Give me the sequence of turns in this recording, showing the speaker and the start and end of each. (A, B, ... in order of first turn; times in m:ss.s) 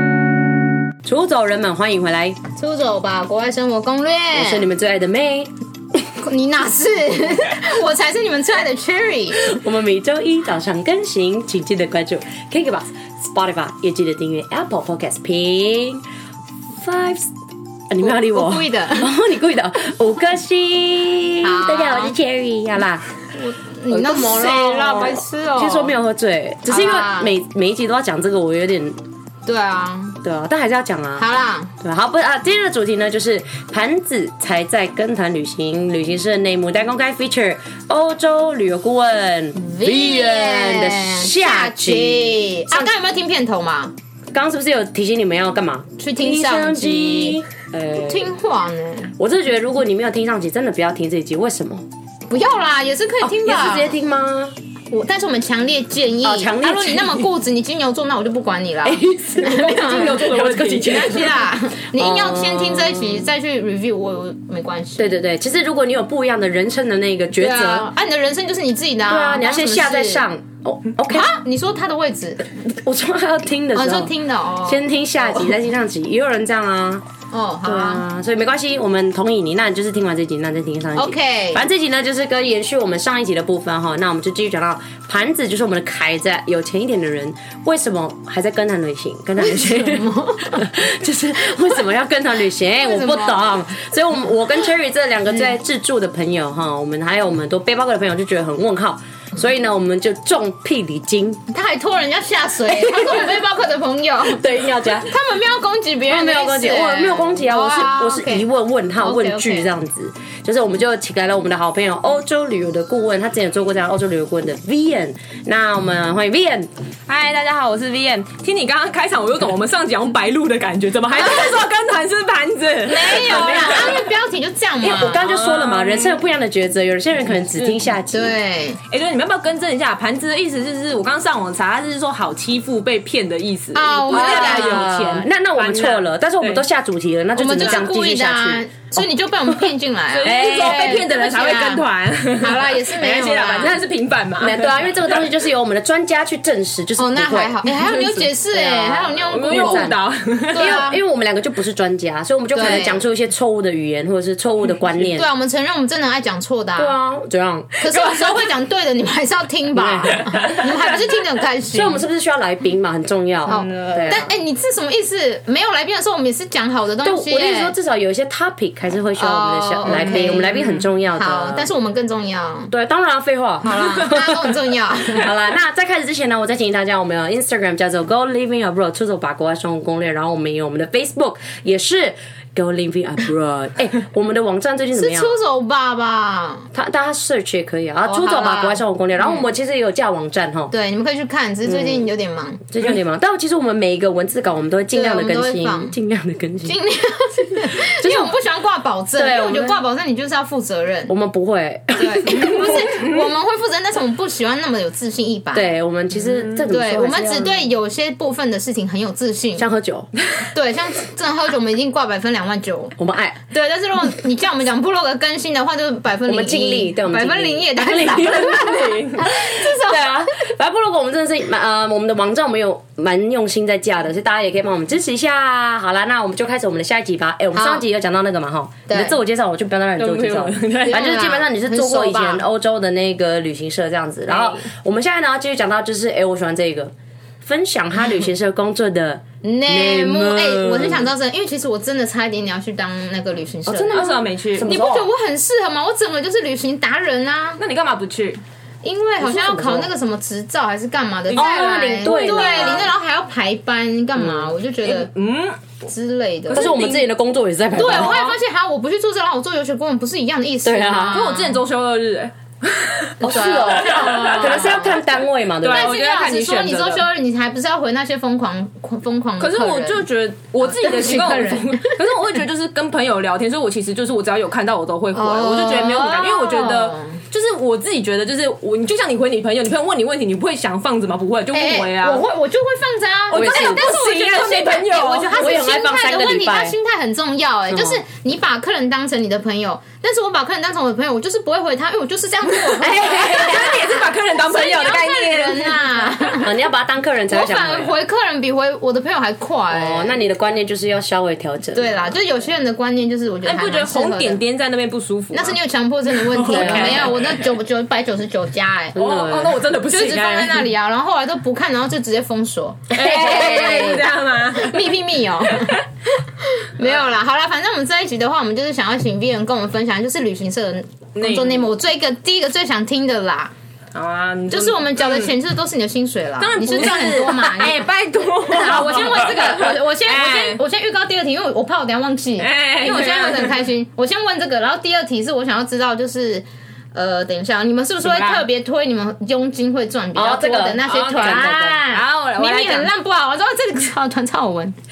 0:01.0-0:02.4 A
0:02.6-0:04.7 B
0:04.4-0:05.5 A
0:06.2-0:09.6 B
0:09.5-0:16.0 A
0:16.8-0:17.3 A
0:17.9-0:23.0 A
0:18.0-0:19.1 B
0:21.4-0:22.2 B
0:23.3-0:25.9 B
0:23.9-0:29.0 A
0:26.7-0:27.3 B
0:29.5-0:30.2 B
0:30.2-0:31.3 A
0:31.2-0:31.7 B
0:31.8-0:43.0 A
0:39.6-0:43.9 B
0:44.3-0:48.3 A
0:46.0-0:47.4 B
0:47.9-0:49.1 B
0:49.2-0:51.9 A
0:52.3-0:54.0 B
0:53.2-0:54.6 A
0:54.9-1:05.1 B
0:56.2-0:57.3 A
0:58.8-1:03.3 A
0:59.6-1:01.1 C
1:05.0-1:07.9 A
1:07.4-1:10.2 B
1:09.1-1:11.3 A
1:11.1-1:12.5 B
1:12.5-1:14.1 A
1:13.7-1:15.5 B
1:14.6-1:17.0 A
1:17.3-1:18.0 B
1:17.6-1:41.4 A
1:21.0-1:21.6 B
1:29.4-1:30.7 B
1:32.8-1:33.6 B
1:41.5-1:48.5 B
1:42.7-1:43.3 A
1:44.3-1:45.1 A
1:46.1-1:56.7 A
1:49.0-1:49.7 B
1:57.1-2:04.0 C
2:01.1-2:01.6 B
2:02.9-2:05.2 B
2:03.2-2:04.0 A
2:04.8-2:08.4 A
2:05.2-2:06.2 C
2:07.5-2:07.8 C
2:08.1-2:08.8 B
2:08.9-2:16.6 C
2:13.7-2:14.9 B
2:14.1-2:19.7 A
2:17.4-2:21.8 B
2:17.6-2:17.9 C
2:20.2-2:24.8 C
2:20.2-2:21.0 A
2:22.4-2:23.8 B
2:23.6-2:23.9 A
2:24.4-2:30.0 A
2:27.0-2:29.9 B
2:27.7-2:28.2 C
2:29.3-2:30.7 C
2:30.5-2:31.0 B
2:30.5-2:35.3 A
2:32.5-2:33.0 B
2:35.1-2:37.0 B
2:36.8-2:37.9 A
2:37.8-2:42.0 B
2:37.9-2:38.3 C
2:39.8-2:40.6 A
2:41.7-2:44.3 A
2:43.5-2:44.3 C
2:43.5-2:47.7 B
2:47.0-2:51.7 A
2:49.2-2:52.7 B
2:49.8-2:50.9 C
2:52.7-2:54.6 A
2:53.6-2:55.3 B
2:55.2-3:05.4 A
3:05.0-3:06.7 B
3:06.7-3:10.7 A
3:08.0-3:09.4 B
3:10.7-3:12.6 B
3:11.6-3:12.1 A
3:12.7-3:16.8 A
3:14.9-3:15.9 B
3:16.6-3:21.1 B
3:17.7-3:18.4 A
3:19.2-3:19.8 A
3:21.1-3:22.9 A
3:22.0-3:25.7 B
3:25.5-3:27.7 A
3:26.7-3:29.7 B
3:29.6-3:30.1 A
3:30.5-3:33.0 B
3:33.0-3:33.4 A
3:33.5-3:40.2 B
3:36.3-3:56.9 A
3:47.5-3:47.8 B
3:48.9-3:49.2 B
3:50.0-3:51.0 C
3:50.8-3:52.4 B
3:57.4-4:01.1 A
3:59.4-4:07.6 B
4:03.7-4:05.1 A
4:03.9-4:04.7 C
4:07.6-4:08.4 C
4:08.8-4:15.1 B
4:09.2-4:09.9 A
4:11.3-4:13.0 A
4:12.0-4:12.9 C
4:14.2-4:14.5 A
4:14.8-4:15.6 C
4:15.8-4:16.8 B
4:16.5-4:17.1 C
4:16.5-4:18.2 A
4:17.7-4:21.6 B
4:17.8-4:18.4 C
4:20.6-4:21.2 A
4:21.1-4:24.7 C
4:23.2-4:26.0 A
4:23.2-4:25.0 B
4:25.6-4:27.1 C
4:25.7-4:30.0 B
4:29.4-4:42.2 C
4:30.6-4:31.9 B
4:35.1-4:37.2 B
4:41.5-4:56.5 B
4:43.3-4:45.5 C
4:43.3-4:43.8 A
4:45.3-4:46.8 A
4:47.7-4:48.0 A
4:52.6-4:55.8 C
4:56.4-4:57.9 A
4:57.3-5:00.2 B
4:59.7-5:02.1 A
5:01.7-5:04.4 B
5:03.4-5:05.6 C
5:05.3-5:09.0 B
5:06.1-5:07.4 C
5:06.5-5:07.1 A
5:09.0-5:09.6 A
5:09.0-5:10.7 C
5:09.9-5:14.0 B
5:12.9-5:14.0 A
5:12.9-5:14.9 C
5:14.5-5:23.5 B
5:15.5-5:15.8 C
5:21.2-5:21.7 C
5:24.0-5:25.3 C
5:24.5-5:27.9 B
5:26.4-5:30.6 C
5:28.4-5:44.8 B
5:32.4-5:33.6 C
5:38.0-5:38.4 C
5:40.2-5:41.8 A
5:40.9-5:42.9 C